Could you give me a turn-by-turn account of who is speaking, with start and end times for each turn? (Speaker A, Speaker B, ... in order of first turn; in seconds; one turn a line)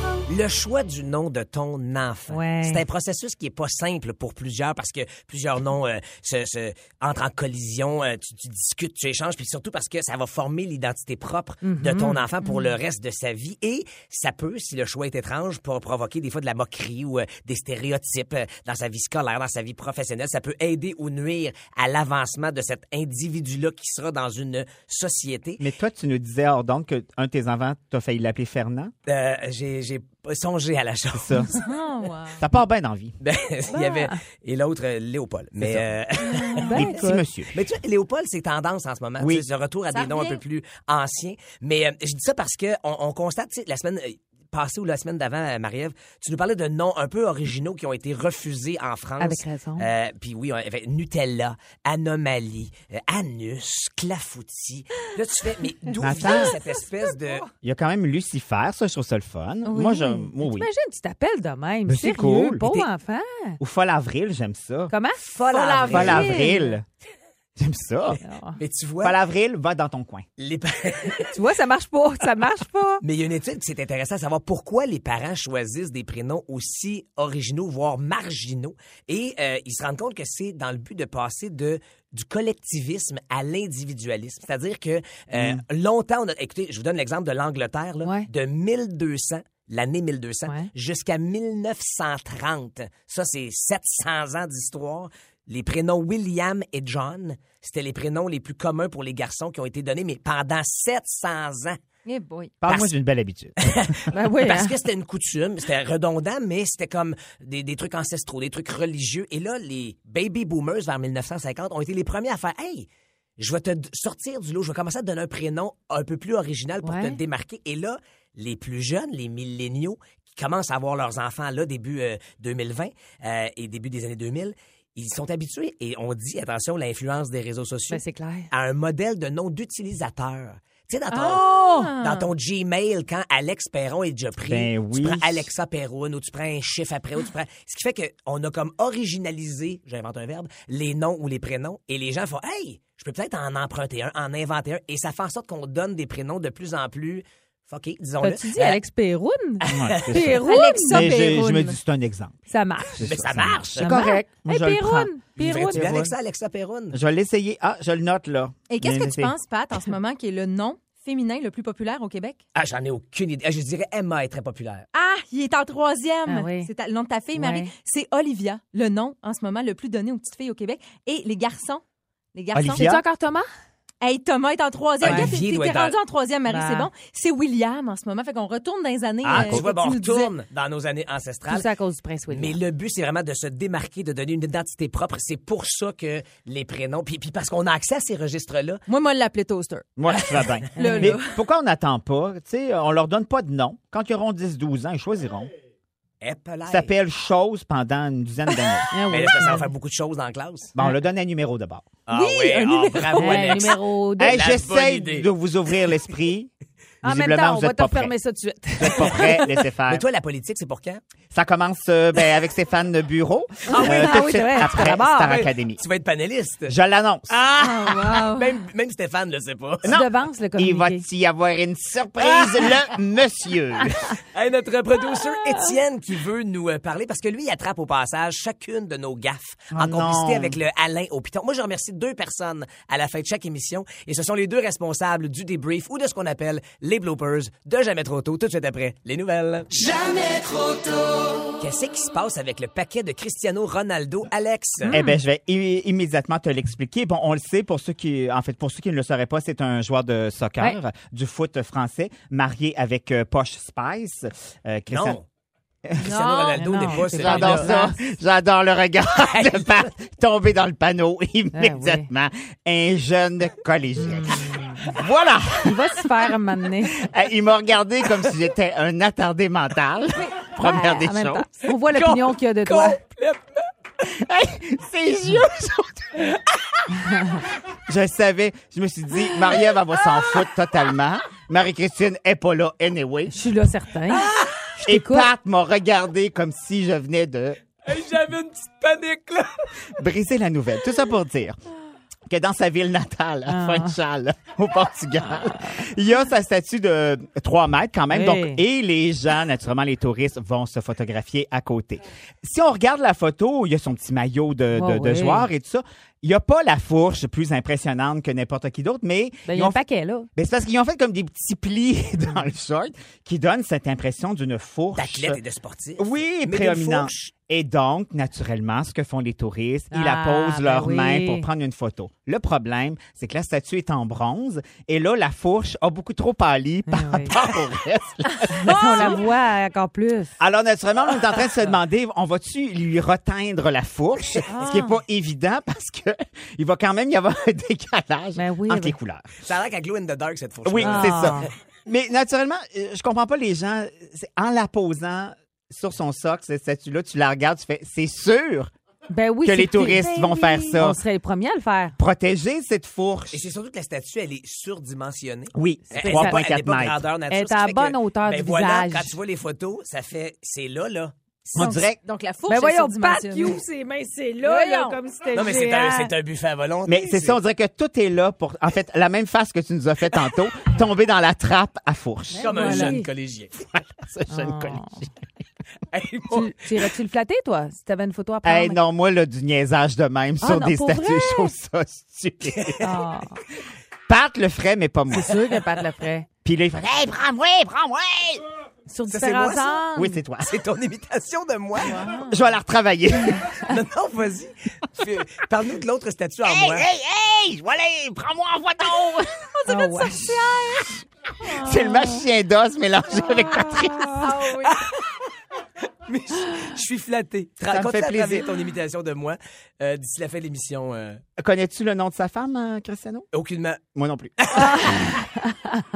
Speaker A: 0.3-25.6
Speaker B: 2.3-2.8
Speaker B: 11.6-12.3
Speaker C: 25.6-28.9
Speaker A: 29.1-31.6
Speaker C: 31.1-31.5
Speaker D: 31.5-32.4
Speaker C: 32.4-33.1
Speaker A: 33.2-57.5
Speaker B: 33.7-34.2
Speaker C: 35.6-35.9
Speaker B: 36.4-37.2
Speaker C: 36.6-37.5
Speaker C: 39.2-39.5
Speaker D: 39.9-40.4
Speaker B: 49.2-49.9
Speaker C: 56.0-56.6
Speaker C: 57.6-60.7
Speaker B: 59.8-63.6
Speaker C: 61.9-62.6
Speaker C: 63.6-64.9
Speaker B: 64.9-66.5
Speaker A: 65.2-66.4
Speaker D: 65.6-66.6
Speaker C: 65.9-66.8
Speaker C: 67.6-68.2
Speaker B: 68.2-68.6
Speaker A: 68.6-69.2
Speaker C: 69.0-70.2
Speaker A: 70.4-71.2
Speaker B: 71.3-73.0
Speaker A: 73.0-101.8
Speaker C: 85.3-85.6
Speaker B: 88.0-88.3
Speaker D: 102.0-102.5
Speaker C: 102.6-104.0
Speaker A: 102.7-102.9
Speaker A: 103.7-112.9
Speaker B: 104.1-104.8
Speaker A: 113.4-148.8
Speaker B: 116.8-117.2
Speaker B: 127.9-128.5
Speaker D: 131.1-132.3
Speaker C: 134.4-135.5
Speaker B: 148.2-151.1
Speaker C: 149.7-152.3
Speaker A: 149.7-150.3
Speaker D: 150.4-151.8
Speaker B: 152.5-153.1
Speaker C: 152.8-156.1
Speaker A: 153.0-153.9
Speaker B: 153.8-155.8
Speaker A: 155.4-157.0
Speaker C: 156.9-159.3
Speaker D: 158.7-162.4
Speaker A: 162.5-164.8
Speaker D: 164.9-171.8
Speaker B: 166.2-166.7
Speaker B: 167.3-167.7
Speaker D: 172.3-172.9
Speaker C: 172.5-173.0
Speaker B: 172.8-173.4
Speaker D: 174.0-180.4
Speaker A: 175.0-175.9
Speaker B: 175.0-175.3
Speaker B: 176.5-176.9
Speaker A: 179.2-181.7
Speaker C: 179.2-179.7
Speaker B: 181.5-182.6
Speaker A: 182.3-188.8
Speaker D: 188.9-191.4
Speaker C: 190.0-195.5
Speaker B: 190.8-191.2
Speaker A: 196.2-196.9
Speaker C: 196.7-198.9
Speaker B: 198.9-199.7
Speaker A: 199.1-200.7
Speaker C: 200.7-201.9
Speaker A: 202.1-205.3
Speaker D: 202.1-203.4
Speaker B: 203.1-204.4
Speaker C: 204.2-206.5
Speaker B: 207.0-209.3
Speaker C: 207.0-208.1
Speaker C: 208.8-210.0
Speaker A: 209.9-211.0
Speaker C: 211.3-215.8
Speaker A: 213.7-216.8
Speaker B: 213.7-215.3
Speaker C: 216.7-217.3
Speaker A: 217.4-219.9
Speaker D: 217.5-218.6
Speaker C: 219.8-224.1
Speaker B: 219.8-221.0
Speaker A: 222.2-222.7
Speaker A: 224.1-240.9
Speaker C: 229.7-230.6
Speaker A: 241.6-245.0
Speaker C: 244.9-255.2
Speaker B: 244.9-245.2
Speaker A: 254.9-255.2
Speaker C: 255.8-256.2
Speaker A: 256.0-257.7
Speaker B: 256.4-258.1
Speaker C: 256.9-266.0
Speaker A: 259.1-259.9
Speaker B: 261.5-262.1
Speaker B: 264.0-264.9
Speaker B: 265.6-267.0
Speaker C: 266.9-271.5
Speaker B: 270.6-273.0
Speaker A: 271.9-273.4
Speaker C: 274.0-276.2
Speaker C: 277.9-283.5
Speaker B: 283.3-284.3
Speaker A: 284.1-284.5
Speaker C: 284.8-287.6
Speaker B: 284.9-285.3
Speaker A: 287.9-289.5
Speaker C: 289.9-291.6
Speaker C: 292.3-309.8
Speaker B: 293.5-294.0
Speaker B: 298.1-298.6
Speaker B: 304.7-305.5
Speaker B: 309.5-310.3
Speaker C: 310.3-315.4
Speaker A: 314.9-317.3
Speaker C: 316.0-329.2
Speaker B: 319.9-321.5
Speaker B: 326.9-327.3
Speaker B: 328.6-330.4
Speaker C: 330.4-339.3
Speaker B: 334.5-335.0
Speaker B: 338.3-338.9
Speaker A: 339.4-341.5
Speaker C: 340.6-348.7
Speaker B: 340.8-341.5
Speaker B: 349.1-351.9
Speaker C: 349.4-351.0
Speaker C: 352.0-353.4
Speaker A: 353.3-361.7
Speaker C: 355.5-357.0
Speaker B: 355.9-356.4
Speaker B: 357.3-359.2
Speaker C: 361.5-362.0
Speaker D: 361.6-363.6
Speaker B: 362.5-366.1
Speaker D: 364.4-365.0
Speaker A: 365.3-367.4
Speaker C: 366.9-372.9
Speaker B: 372.3-373.1
Speaker A: 372.4-373.5
Speaker C: 373.6-375.1
Speaker B: 374.3-375.0
Speaker A: 375.9-376.8
Speaker B: 376.3-378.8
Speaker C: 378.4-382.9
Speaker B: 380.4-381.5
Speaker B: 382.8-383.4
Speaker C: 384.1-385.6
Speaker B: 385.1-386.3
Speaker C: 386.4-388.4
Speaker B: 388.9-390.2
Speaker A: 389.1-389.8
Speaker C: 389.9-390.5
Speaker A: 390.4-392.0
Speaker B: 391.9-392.4
Speaker C: 391.9-393.5
Speaker A: 393.7-396.9
Speaker C: 396.4-399.3
Speaker B: 399.7-400.4
Speaker C: 400.0-400.8
Speaker C: 401.4-404.3
Speaker B: 403.5-404.7
Speaker A: 404.6-405.2
Speaker A: 406.1-411.2
Speaker C: 407.7-408.5
Speaker C: 411.4-413.3
Speaker A: 413.3-413.8
Speaker C: 413.9-414.9
Speaker A: 414.4-415.2
Speaker B: 414.6-415.6